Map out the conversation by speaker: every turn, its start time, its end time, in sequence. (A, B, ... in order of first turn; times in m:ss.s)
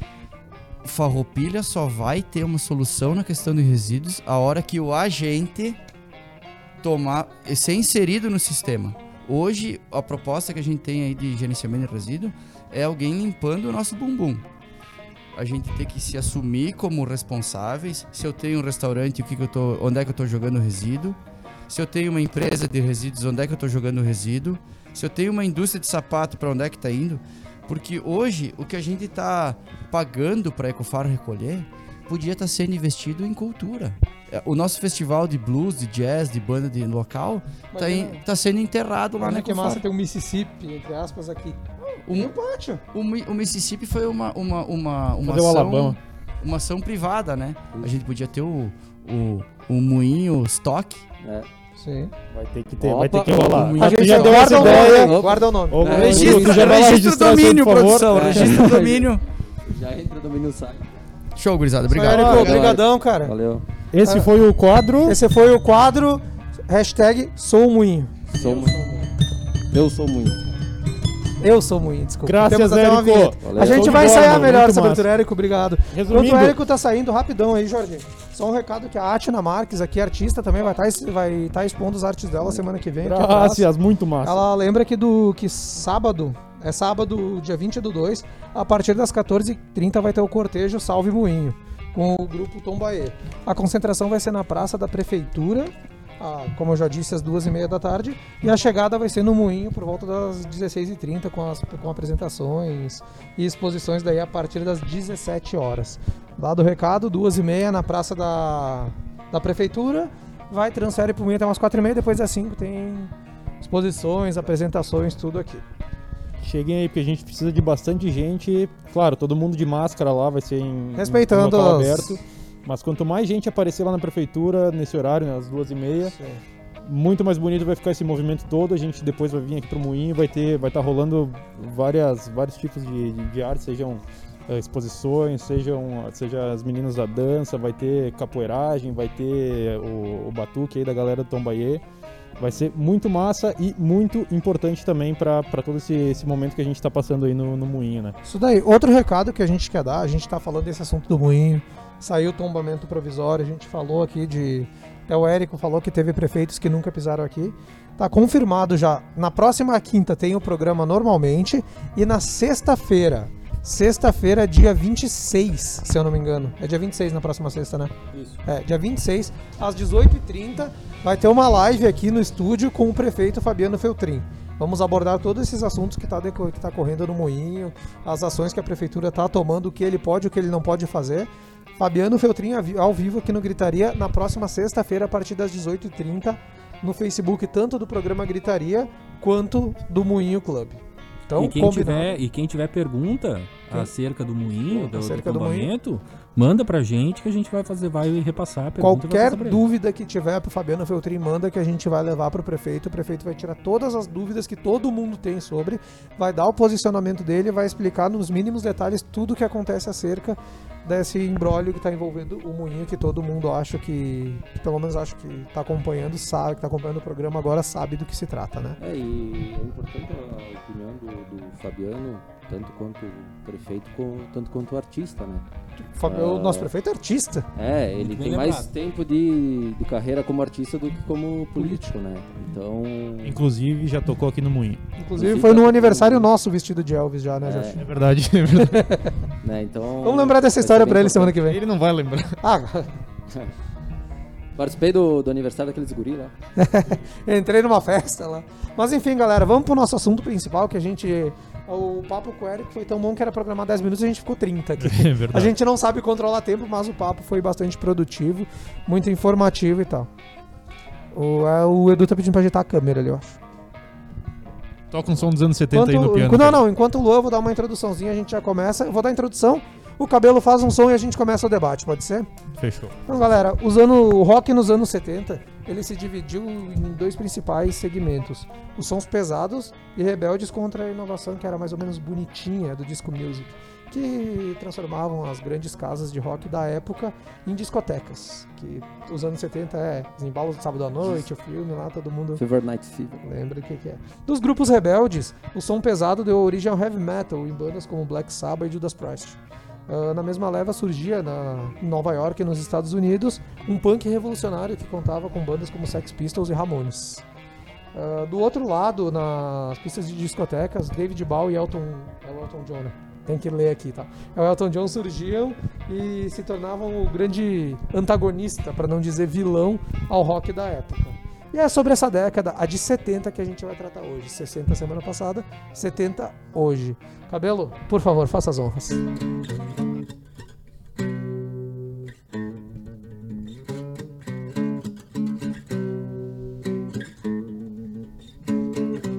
0:00.8-0:05.8 A
0:06.8-0:14.4 A
0:15.3-0:21.2 A
0:21.7-0:39.8 A
0:37.7-0:38.2 B
0:39.2-0:42.8 B
0:42.0-0:42.3 A
0:42.9-0:51.0 A
0:45.2-0:46.0 C
0:51.2-0:51.5 D
0:51.8-0:52.1 B
0:52.3-0:55.2 C
0:52.8-0:56.9 D
0:53.8-0:56.4 B
0:55.7-0:58.8 C
0:55.9-0:59.2 A
0:58.1-0:59.1 D
0:59.6-1:01.0 D
1:01.3-1:02.8 A
1:01.9-1:03.3 B
1:02.0-1:02.6 C
1:02.3-1:03.6 D
1:03.9-1:05.2 C
1:04.0-1:04.3 B
1:05.0-1:08.1 B
1:08.3-1:09.0 D
1:08.4-1:08.7 C
1:09.7-1:10.4 D
1:11.4-1:23.7 B
1:12.2-1:15.1 C
1:13.4-1:14.5 D
1:15.9-1:16.6 C
1:23.0-1:24.4 C
1:24.2-1:55.6 B
1:56.4-2:06.1 C
2:01.0-2:02.2 B
2:06.0-2:06.4 B
2:06.8-2:21.8 C
2:22.4-2:28.2 C
2:28.2-2:47.9 B
2:48.1-2:48.4 E
2:48.4-3:12.2 B
3:11.4-3:19.6 E
3:14.7-3:15.7 B
3:18.8-3:38.8 B
3:38.8-3:45.4 D
3:45.8-3:47.5 B
3:46.0-3:46.7 D
3:47.5-3:53.4 D
3:48.0-3:48.7 E
3:51.6-3:51.9 B
3:53.2-3:54.8 C
3:55.0-3:57.8 B
3:55.2-3:56.3 D
3:57.4-3:57.8 D
3:57.8-3:58.9 C
3:58.6-3:59.1 B
3:59.4-4:01.4 D
4:00.0-4:01.6 B
4:01.4-4:02.4 C
4:02.4-4:03.0 B
4:04.6-4:06.3 D
4:06.6-4:20.1 B
4:14.8-4:15.5 C
4:21.1-4:23.4 B
4:24.9-4:26.6 C
4:25.7-4:32.3 B
4:32.6-4:33.3 C
4:33.1-4:52.4 B
4:52.4-4:53.2 D
4:53.2-5:07.2 B
5:07.9-5:29.0 B